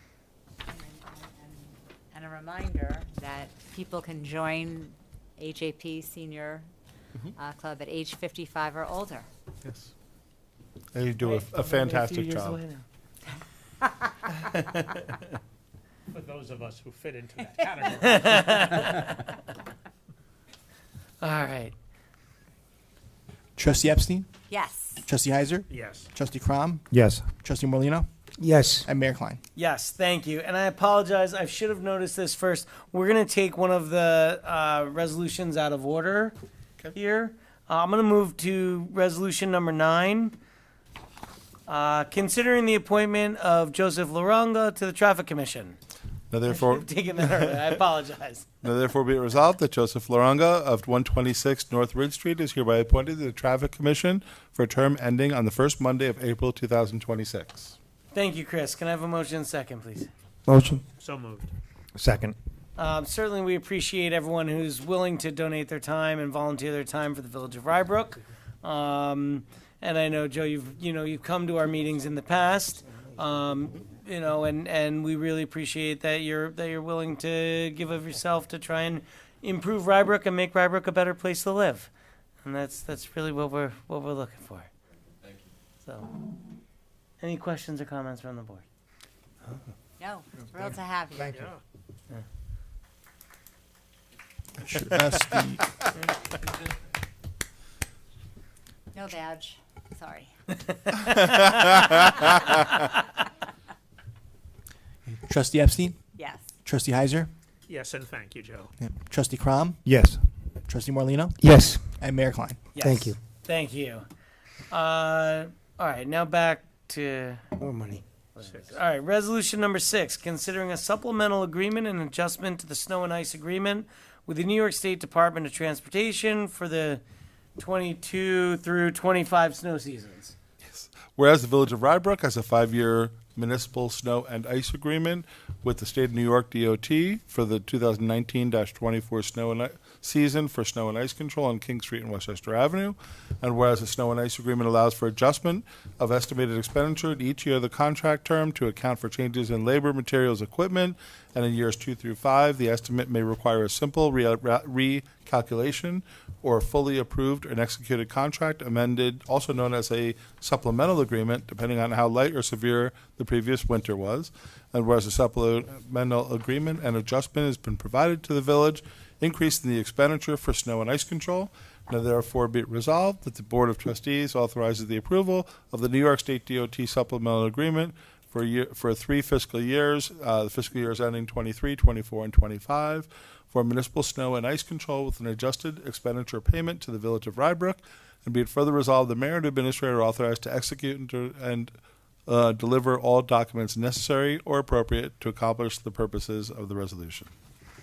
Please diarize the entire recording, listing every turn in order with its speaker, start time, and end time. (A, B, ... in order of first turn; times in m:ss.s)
0:00.7-0:06.7 A
0:07.4-0:09.3 A
0:09.6-0:09.9 B
0:10.9-0:12.6 B
0:11.2-0:12.8 C
0:16.1-0:18.8 D
0:18.0-0:19.3 C
0:21.2-0:21.7 C
0:23.6-0:24.3 E
0:24.5-0:25.0 A
0:25.0-0:28.0 E
0:25.7-0:26.1 D
0:26.9-0:27.3 F
0:28.4-0:28.9 F
0:28.8-0:29.4 E
0:29.5-0:36.4 C
0:36.9-0:40.4 C
0:41.7-0:45.8 C
0:46.3-0:46.9 B
0:46.4-0:48.5 C
0:48.6-0:57.8 B
0:58.1-1:00.1 C
1:00.5-1:00.8 F
1:01.0-1:01.5 D
1:02.0-1:02.3 F
1:02.8-1:21.9 C
1:22.4-1:24.7 C
1:25.8-1:26.1 C
1:27.2-1:28.6 C
1:30.0-1:31.5 A
1:31.3-1:31.6 D
1:34.6-1:35.6 E
1:38.9-1:40.3 A
1:40.9-1:42.8 C
1:45.1-1:46.0 E
1:46.2-1:46.5 A
1:46.6-1:47.3 E
1:47.7-1:48.7 D
1:48.8-1:49.9 E
1:49.8-1:50.2 F
1:50.6-1:51.4 E
1:51.4-1:51.9 F
1:51.9-1:52.7 E
1:52.7-1:54.0 C
1:52.8-1:53.2 F
1:54.7-2:07.0 C
1:57.7-1:58.0 F
1:58.4-1:58.7 D
2:07.6-2:10.4 C
2:10.7-3:11.7 B
3:12.3-3:17.3 B